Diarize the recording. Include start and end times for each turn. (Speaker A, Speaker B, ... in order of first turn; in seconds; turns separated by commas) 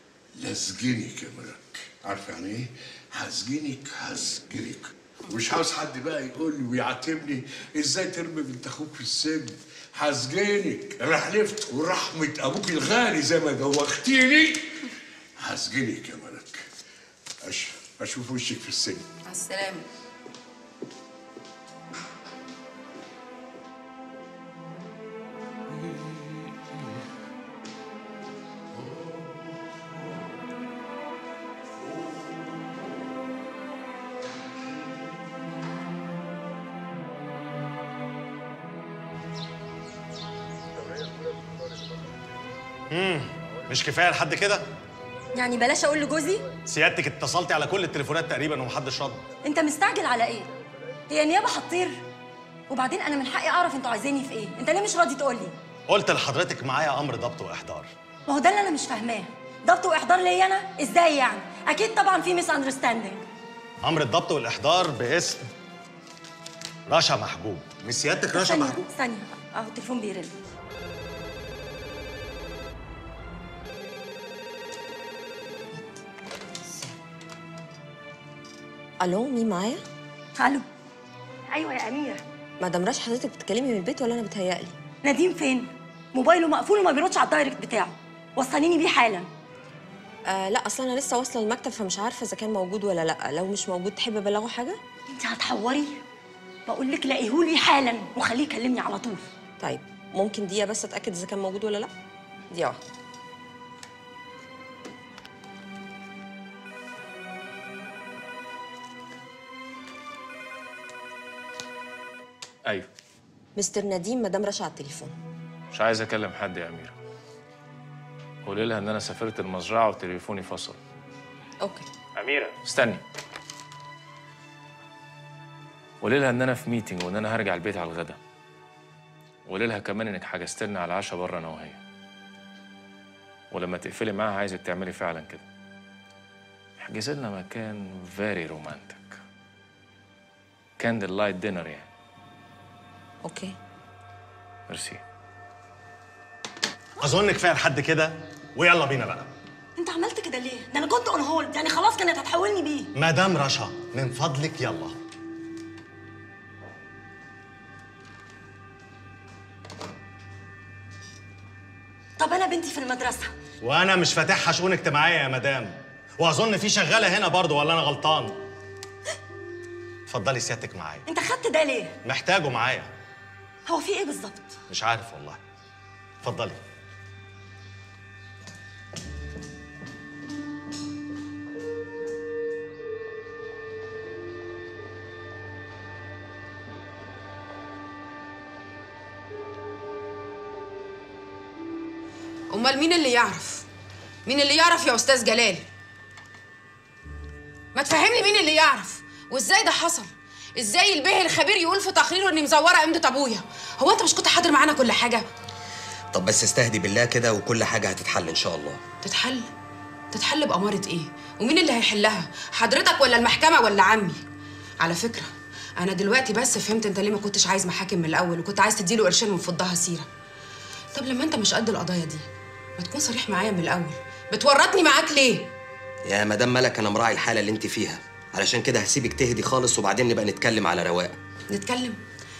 Speaker A: 0.3-14.8, Speaker A: 15.4-16.7, Speaker A: 17.4-19.0, Speaker B: 19.2-19.9, Speaker A: 25.7-27.0, Speaker A: 28.7-29.6, Speaker C: 42.9-44.6, Speaker D: 45.3-46.5, Speaker C: 46.6-49.2, Speaker D: 49.4-50.5, Speaker D: 51.1-52.0, Speaker D: 52.7-55.5, Speaker C: 55.9-57.9, Speaker D: 58.3-63.2, Speaker C: 63.8-65.4, Speaker C: 66.9-68.9, Speaker D: 68.3-70.3, Speaker E: 76.6-76.9, Speaker E: 79.0-79.8, Speaker D: 80.4-80.7, Speaker D: 81.5-82.2, Speaker E: 82.6-84.8, Speaker D: 85.0-89.3, Speaker E: 90.3-94.8, Speaker D: 95.1-96.0, Speaker D: 96.7-99.2, Speaker E: 99.6-101.9, Speaker E: 102.5-102.8, Speaker E: 113.5-115.1, Speaker F: 115.7-116.9, Speaker F: 118.4-120.8, Speaker E: 121.6-121.9, Speaker F: 122.2-123.0, Speaker F: 126.0-128.2, Speaker F: 129.4-131.8, Speaker F: 133.5-135.4, Speaker F: 136.8-139.2, Speaker F: 140.8-141.9, Speaker E: 143.2-143.5, Speaker F: 144.7-145.0, Speaker C: 147.0-149.3, Speaker D: 149.8-152.9, Speaker C: 152.9-154.9, Speaker D: 162.2-163.3, Speaker C: 163.6-168.4, Speaker C: 170.1-171.0, Speaker D: 171.1-171.9, Speaker C: 172.0-172.9, Speaker D: 173.7-174.6, Speaker C: 174.7-175.4, Speaker C: 176.2-176.6, Speaker B: 192.5-193.7, Speaker B: 194.2-195.6, Speaker B: 197.7-205.2, Speaker G: 206.1-208.8, Speaker B: 209.0-209.5, Speaker B: 210.1-214.2, Speaker B: 214.8-220.1, Speaker B: 220.9-222.2, Speaker B: 222.8-225.5, Speaker G: 226.0-231.2, Speaker B: 231.5-232.0